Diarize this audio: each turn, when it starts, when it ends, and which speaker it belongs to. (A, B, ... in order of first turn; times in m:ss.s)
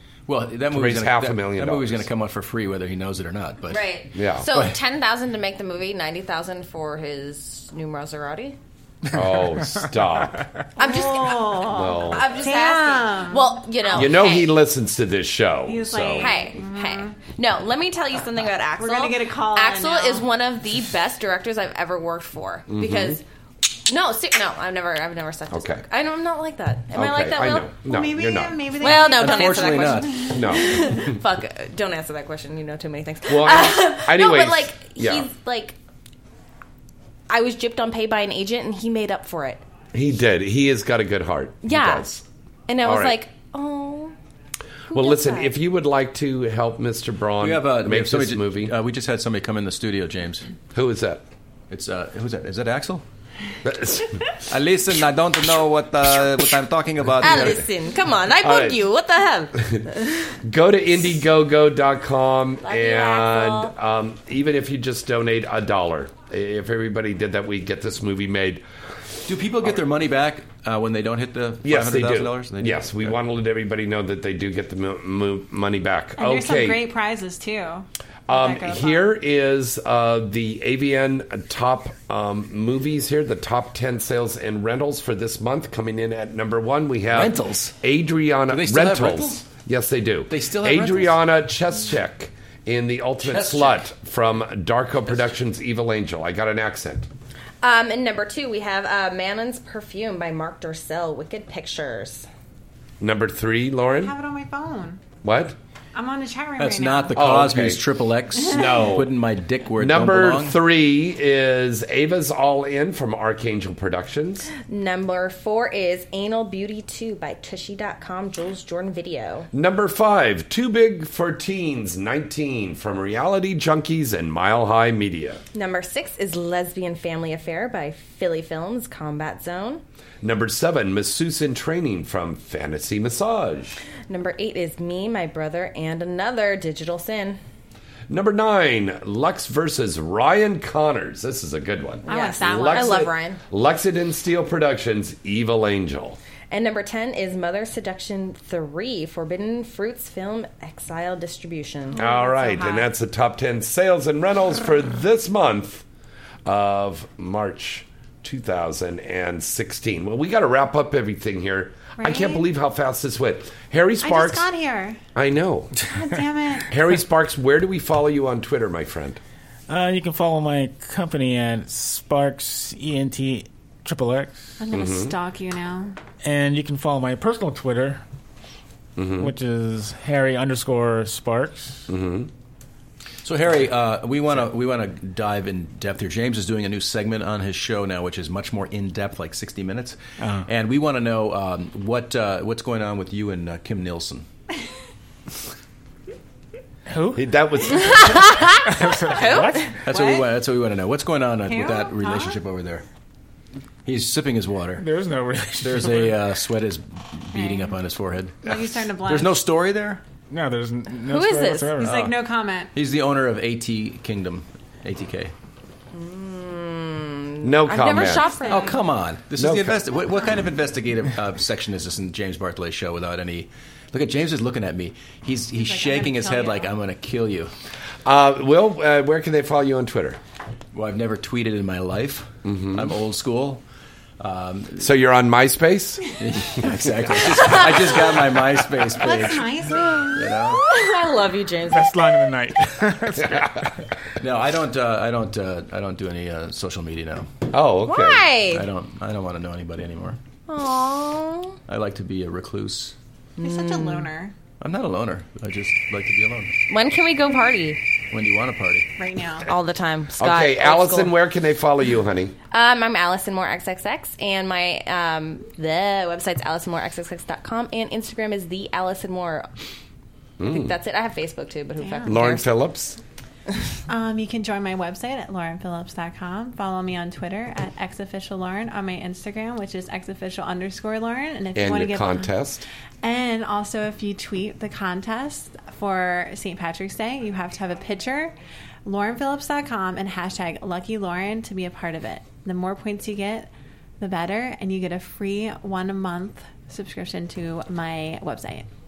0:00.3-0:04.7 A
0:00.7-0:02.1 B
0:03.7-0:08.6 C
0:04.1-0:04.5 B
0:09.1-0:10.4 B
0:10.8-0:14.5 C
0:10.8-0:14.1 D
0:11.7-0:12.3 B
0:13.9-0:16.3 B
0:15.7-0:17.2 D
0:16.2-0:23.2 C
0:18.8-0:20.3 D
0:22.7-0:23.2 B
0:23.9-0:27.7 C
0:25.5-0:25.8 B
0:26.9-0:28.7 B
0:27.9-0:31.0 D
0:28.8-0:35.8 C
0:28.8-0:30.2 A
0:30.3-0:31.2 B
0:33.3-0:35.3 B
0:37.3-0:39.6 C
0:39.9-0:42.2 B
0:41.6-0:42.1 C
0:42.7-0:44.1 C
0:42.8-0:43.2 B
0:44.9-0:45.5 C
0:44.9-0:48.7 B
0:47.4-0:50.5 A
0:50.7-0:51.2 B
0:51.7-0:53.0 A
0:53.6-0:54.1 B
0:54.5-0:57.7 A
0:57.2-1:00.3 C
0:58.4-0:58.8 B
1:00.4-1:08.6 B
1:02.6-1:03.7 C
1:09.3-1:13.2 A
1:11.6-1:16.8 B
1:16.2-1:19.1 D
1:18.3-1:37.1 B
1:27.1-1:27.8 A
1:28.5-1:29.4 A
1:30.3-1:31.2 A
1:33.2-1:33.8 A
1:35.1-1:35.3 A
1:37.6-1:42.3 C
1:43.0-1:44.2 B
1:44.0-1:45.0 D
1:45.2-1:45.6 B
1:45.9-1:47.3 D
1:46.6-1:50.6 A
1:47.1-1:49.1 B
1:48.6-1:48.9 D
1:49.7-1:54.5 B
1:54.6-1:59.5 C
1:59.5-2:05.4 B
2:05.5-2:09.8 C
2:10.2-2:13.8 B
2:14.1-2:17.4 C
2:18.1-2:26.2 B
2:22.1-2:23.4 C
2:22.1-2:23.1 D
2:26.5-2:32.0 C
2:31.9-2:32.8 D
2:32.0-2:35.8 B
2:36.4-2:44.5 B
2:42.0-2:42.4 D
2:44.0-2:45.0 D
2:45.2-2:45.8 B
2:45.9-2:46.7 D
2:46.7-2:49.2 B
2:49.7-2:54.6 E
2:54.6-2:56.0 D
2:54.7-2:55.1 B
2:56.2-2:58.0 E
2:59.0-2:59.3 B
2:59.2-3:01.8 E
3:01.9-3:02.3 B
3:03.2-3:14.3 A
3:10.2-3:10.5 E
3:16.9-3:17.2 E
3:17.2-3:18.4 B
3:17.8-3:19.7 C
3:18.7-3:19.7 E
3:19.8-3:22.8 A
3:19.9-3:20.3 D
3:21.4-3:22.4 D
3:23.8-3:24.9 A
3:24.8-3:26.2 E
3:25.6-3:30.0 A
3:27.3-3:27.8 D
3:28.4-3:29.4 D
3:30.3-3:32.0 E
3:31.1-3:31.7 C
3:31.8-3:32.7 D
3:31.8-3:32.1 A
3:32.7-3:35.3 A
3:35.9-3:38.8 C
3:37.4-3:38.4 B
3:38.2-3:38.8 D
3:38.4-3:47.5 A
3:39.4-3:39.8 B
3:45.5-3:46.8 D
3:48.0-3:50.2 B
3:50.7-3:53.6 A
3:52.4-3:52.9 B
3:54.2-3:54.9 A
3:54.8-3:56.0 B
3:56.2-3:59.5 A
3:58.9-4:00.3 D
3:59.8-4:02.0 C
4:00.2-4:00.6 A
4:01.7-4:03.8 E
4:04.2-4:07.3 A
4:07.5-4:08.3 B
4:07.8-4:08.7 C
4:08.5-4:10.2 A
4:10.5-4:11.6 C
4:11.7-4:13.0 A
4:13.4-4:14.3 D
4:13.4-4:14.1 C
4:14.6-4:16.6 A
4:16.7-4:17.8 C
4:18.1-4:18.9 A
4:19.0-4:19.5 D
4:19.5-4:21.1 C
4:20.2-4:22.4 B
4:22.5-4:29.5 C
4:30.4-4:30.7 B
4:30.4-4:32.5 C
4:31.8-4:32.1 D
4:32.1-4:33.0 B
4:33.9-4:42.3 D
4:41.6-4:42.7 B
4:43.0-4:53.5 D
4:54.0-4:58.7 D